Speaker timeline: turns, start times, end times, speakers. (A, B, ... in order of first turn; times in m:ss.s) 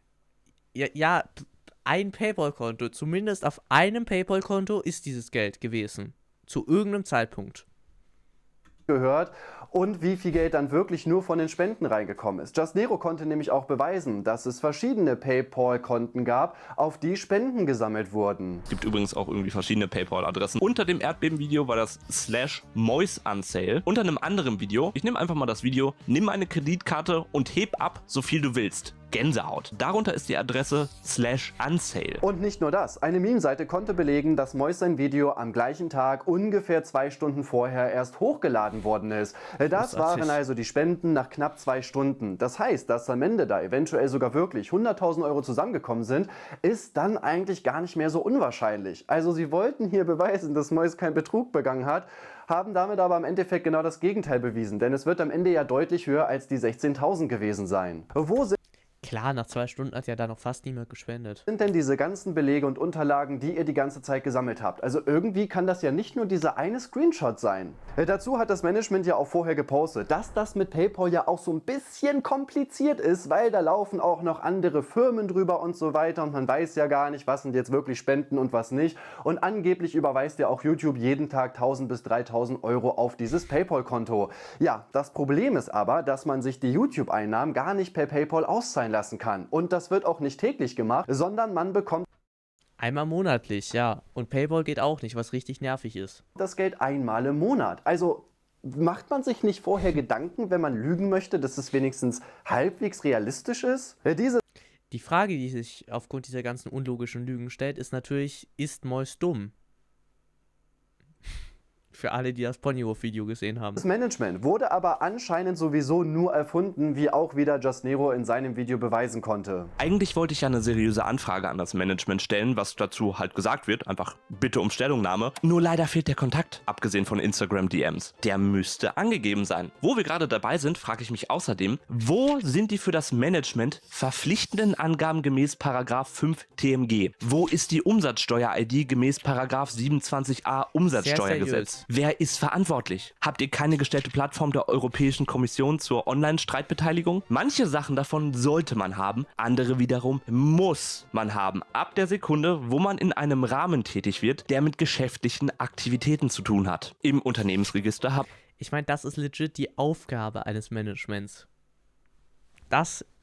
0:00.7-0:07.6 A
0:08.9-0:18.6 B
0:18.7-0:32.2 C
0:32.2-0:58.6 B
0:39.8-0:40.4 A
0:59.0-1:01.4 A
1:01.5-1:32.1 B
1:32.8-1:36.2 A
1:36.4-1:44.4 B
1:44.9-1:49.5 A
1:51.9-1:53.8 A
1:53.8-1:59.7 B
1:59.8-2:38.3 C
2:20.9-2:21.8 A
2:38.6-2:41.5 A
2:42.7-2:43.1 A